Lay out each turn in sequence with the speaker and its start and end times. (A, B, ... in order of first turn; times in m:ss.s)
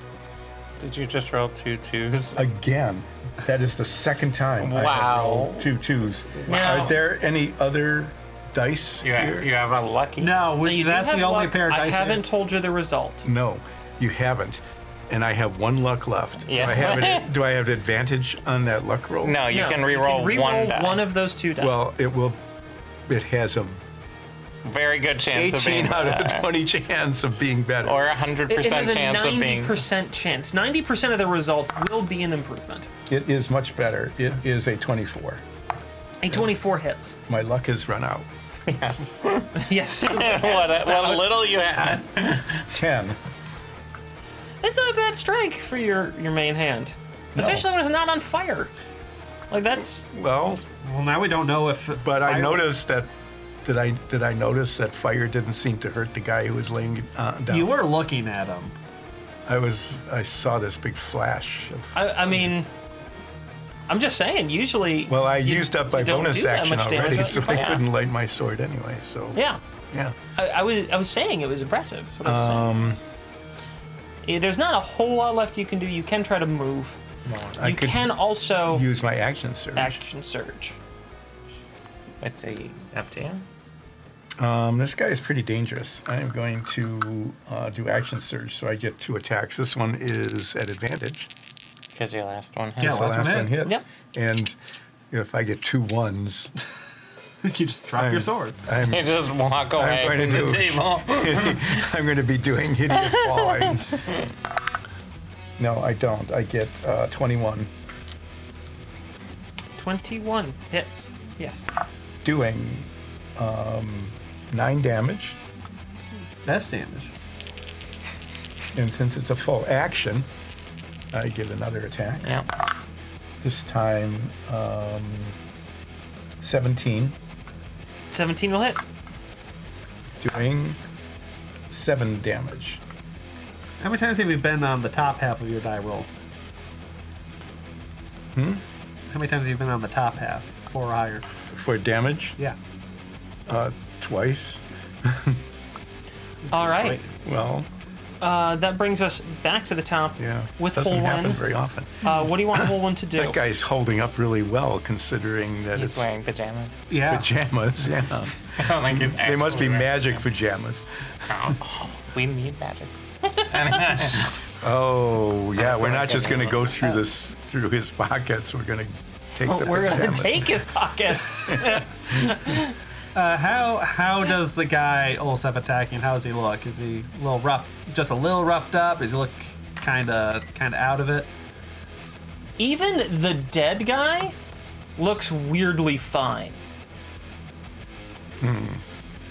0:00.8-0:02.4 A
0:02.4-0:09.5 B
0:04.6-0:05.7 A
0:06.5-0:07.0 C
0:09.0-0:10.4 A
0:10.2-0:12.2 D
0:10.6-0:13.3 C
0:13.2-0:19.4 B
0:16.5-0:17.3 A
0:19.2-0:21.1 A
0:19.5-0:21.8 C
0:21.6-0:22.4 B
0:23.1-0:23.8 B
0:24.6-0:26.5 A
0:25.3-0:28.0 B
0:27.8-0:29.8 A
0:28.5-0:32.9 C
0:33.1-0:35.4 B
0:36.2-0:37.2 C
0:37.3-0:38.3 B
0:38.7-0:42.7 A
0:39.6-0:41.4 C
0:42.7-0:43.2 B
0:44.6-0:48.7 C
0:47.4-0:47.7 B
0:49.5-0:50.1 C
0:50.1-0:50.6 B
0:50.8-0:52.7 D
0:52.0-0:53.1 B
0:53.6-0:57.8 B
0:57.5-0:58.8 D
0:59.4-1:02.0 B
1:01.9-1:02.7 C
1:03.9-1:07.8 C
1:05.1-1:09.4 B
1:09.4-1:09.6 C
1:10.4-1:12.7 C
1:12.2-1:13.0 B
1:14.2-1:17.0 C
1:17.2-1:17.6 A
1:17.6-1:18.2 B
1:17.6-1:18.9 C
1:18.7-1:20.0 B
1:19.8-1:20.8 C
1:22.2-1:23.4 A
1:24.4-1:31.3 B
1:31.9-1:33.1 A
1:32.8-1:33.6 D
1:32.8-1:34.6 B
1:35.1-1:36.5 B
1:37.4-1:38.6 D
1:38.0-1:39.1 B
1:38.8-1:41.8 A
1:39.7-1:44.0 B
1:43.0-1:44.2 A
1:45.6-1:47.7 B
1:49.8-1:51.7 C
1:52.2-1:55.4 B
1:56.4-1:57.1 D
1:58.7-2:00.3 B
2:01.1-2:02.3 B
2:03.4-2:05.4 B
2:06.4-2:07.2 B
2:08.1-2:08.8 C
2:10.2-2:10.8 B
2:11.7-2:12.8 B
2:13.8-2:16.1 D
2:18.4-2:18.6 B
2:19.1-2:21.2 D
2:21.5-2:22.4 B
2:23.5-2:25.4 B
2:26.5-2:27.1 D
2:26.5-2:27.0 C
2:27.2-2:27.7 B
2:28.2-2:31.4 C
2:30.2-2:36.1 B
2:32.0-2:33.4 C
2:35.8-2:36.8 A
2:36.9-2:37.3 D
2:37.1-2:41.5 B
2:38.5-2:40.2 A
2:41.3-2:44.4 A
2:44.0-2:50.6 B
2:45.6-2:47.0 A
2:49.4-2:52.7 C
2:51.5-2:52.3 B
2:53.2-3:01.3 D
3:02.6-3:04.4 C
3:05.0-3:06.6 C
3:08.4-3:08.8 B